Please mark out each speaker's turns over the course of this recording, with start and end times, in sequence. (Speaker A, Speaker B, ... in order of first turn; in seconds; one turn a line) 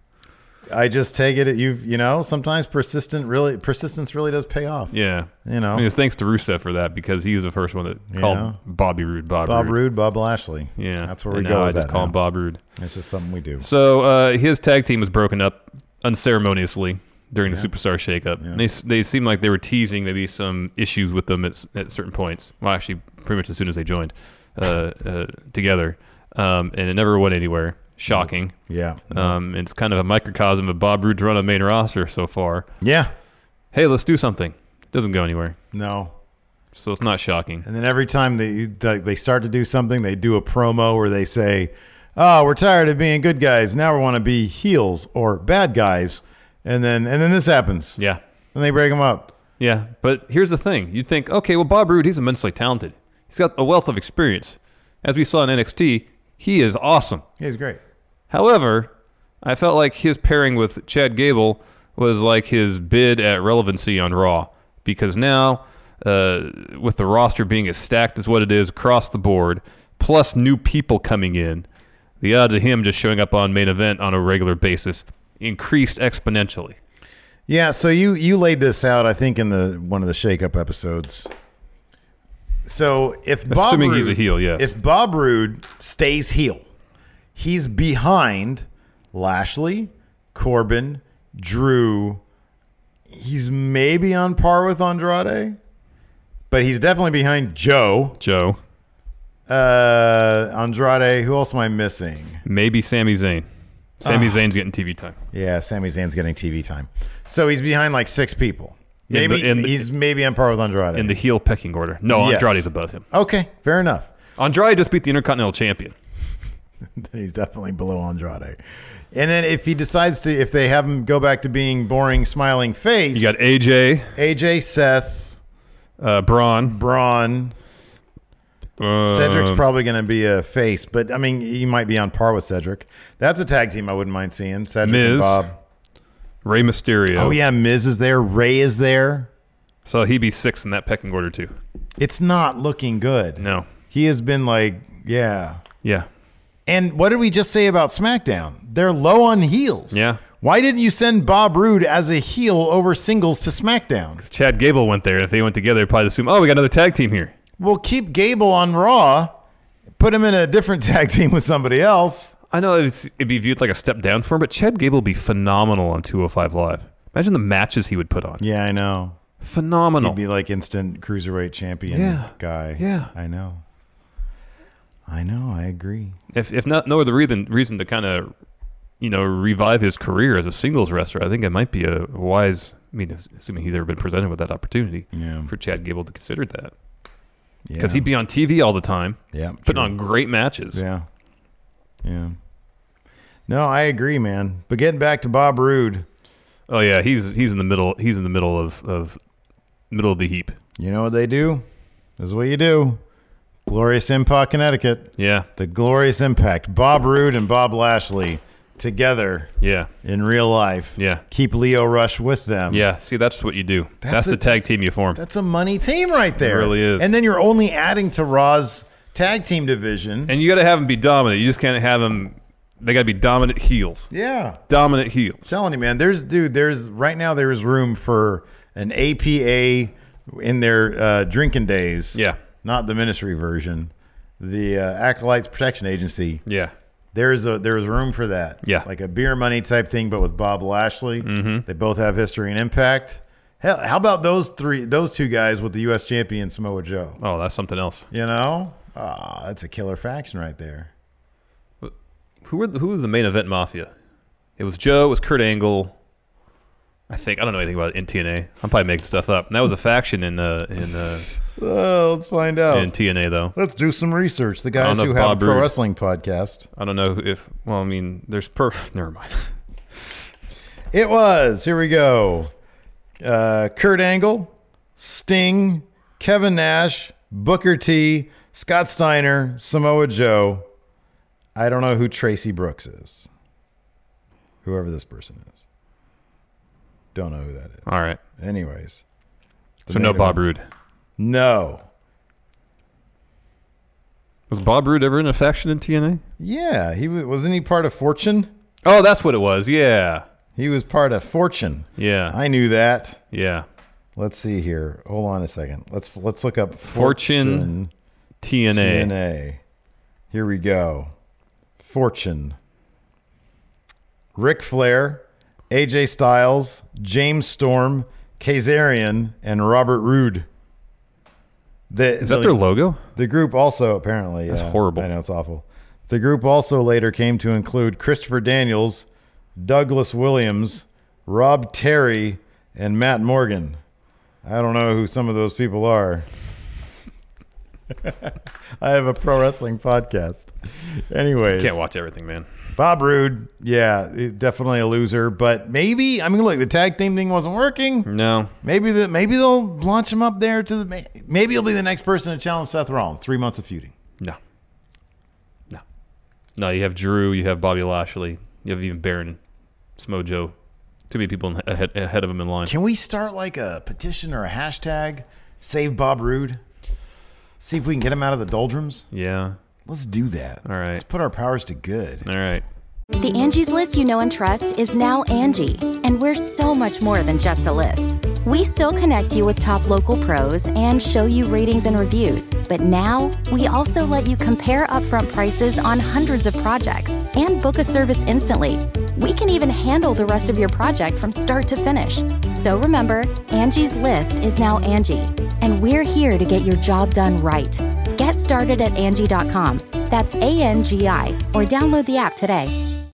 Speaker A: 0.7-4.9
Speaker B: 4.9-9.8
Speaker A: 5.4-5.8
Speaker A: 8.1-8.6
Speaker A: 9.4-12.1
Speaker B: 10.8-12.6
Speaker A: 12.8-13.7
Speaker B: 13.6-28.5
Speaker A: 28.1-29.4
Speaker B: 29.1-32.6
Speaker A: 32.8-33.1
Speaker B: 33.7-35.6
Speaker A: 35.7-36.1
Speaker B: 36.7-37.6
Speaker A: 37.6-48.0
Speaker A: 48.5-49.3
Speaker B: 49.6-57.2
Speaker A: 57.4-57.8
Speaker B: 58.3-58.9
Speaker B: 59.4-71.7
Speaker B: 72.2-76.8
Speaker A: 77.5-81.3
Speaker A: 82.6-86.6
Speaker B: 83.5-84.7
Speaker A: 87.3-92.2
Speaker A: 93.1-95.6
Speaker A: 96.5-98.2
Speaker B: 98.2-98.6
Speaker A: 99.5-102.4
Speaker B: 102.5-103.5
Speaker B: 104.0-105.2
Speaker A: 104.0-104.4
Speaker A: 105.3-111.2
Speaker B: 109.1-109.8
Speaker B: 110.9-113.0
Speaker A: 112.1-114.1
Speaker B: 114.4-115.9
Speaker A: 116.9-118.6
Speaker A: 119.1-123.3
Speaker B: 123.1-124.1
Speaker A: 124.2-125.3
Speaker B: 126.0-126.8
Speaker A: 126.6-127.5
Speaker B: 128.8-129.6
Speaker A: 129.0-135.5
Speaker B: 134.8-135.4
Speaker B: 136.4-137.4
Speaker A: 137.1-139.3
Speaker B: 139.8-141.5
Speaker A: 142.0-145.6
Speaker B: 143.4-143.7
Speaker B: 145.8-146.1
Speaker A: 146.7-154.2
Speaker B: 149.9-150.2
Speaker B: 154.2-157.3
Speaker A: 157.6-159.3
Speaker A: 160.0-162.3
Speaker B: 162.5-168.4
Speaker A: 168.4-169.2
Speaker B: 169.4-170.2
Speaker A: 170.0-173.6
Speaker B: 171.9-173.1
Speaker A: 175.1-176.2
Speaker B: 176.3-178.3
Speaker B: 179.0-186.7
Speaker A: 185.1-185.5
Speaker A: 187.7-188.1
Speaker B: 187.8-190.8
Speaker A: 189.3-189.9
Speaker A: 190.7-191.1
Speaker A: 192.0-192.3
Speaker A: 193.5-196.1
Speaker B: 196.7-199.2
Speaker B: 199.9-200.6
Speaker A: 200.8-201.7
Speaker A: 202.2-203.0
Speaker A: 203.7-209.5
Speaker B: 205.2-205.5
Speaker B: 209.6-209.9
Speaker A: 210.0-212.8
Speaker B: 211.0-211.2
Speaker B: 212.7-215.2
Speaker A: 214.0-220.3
Speaker B: 216.4-217.1
Speaker B: 220.3-224.1
Speaker A: 224.1-224.6
Speaker B: 224.7-225.5
Speaker A: 225.4-236.4
Speaker B: 236.5-236.7
Speaker A: 237.1-247.2
Speaker B: 241.2-241.6
Speaker B: 247.2-248.1
Speaker A: 248.1-250.9
Speaker B: 252.4-253.9
Speaker B: 254.6-255.9
Speaker B: 257.1-261.3
Speaker A: 261.6-262.9
Speaker B: 262.7-263.5
Speaker A: 263.5-266.7
Speaker B: 264.8-265.7
Speaker B: 266.8-269.5
Speaker A: 270.9-272.5
Speaker A: 273.2-280.7
Speaker A: 281.5-283.3
Speaker A: 284.6-285.6
Speaker A: 287.1-287.9
Speaker B: 287.9-288.2
Speaker A: 288.4-289.0
Speaker A: 289.9-290.4
Speaker B: 289.9-290.6
Speaker A: 291.2-291.9
Speaker B: 294.5-296.2
Speaker A: 296.4-298.5
Speaker B: 298.8-300.2
Speaker A: 300.6-303.2
Speaker B: 302.0-302.4
Speaker B: 303.3-303.6
Speaker A: 304.1-307.9
Speaker B: 306.8-307.7
Speaker B: 308.4-309.1
Speaker A: 308.7-309.6
Speaker A: 310.3-311.1
Speaker A: 311.8-312.6
Speaker A: 314.3-320.5
Speaker A: 321.9-322.6
Speaker B: 322.2-323.0
Speaker A: 323.1-329.1
Speaker B: 324.5-325.1
Speaker A: 329.6-333.8
Speaker A: 334.4-336.3
Speaker A: 337.9-341.8
Speaker B: 341.5-342.5
Speaker A: 342.8-348.1
Speaker B: 348.1-348.5
Speaker A: 348.6-353.9
Speaker B: 356.6-359.4
Speaker B: 360.0-360.5
Speaker B: 361.1-362.7
Speaker A: 362.6-366.6
Speaker A: 367.6-369.1
Speaker B: 369.1-369.6
Speaker A: 369.9-372.2
Speaker B: 370.6-371.0
Speaker B: 372.2-372.6
Speaker C: 373.2-402.7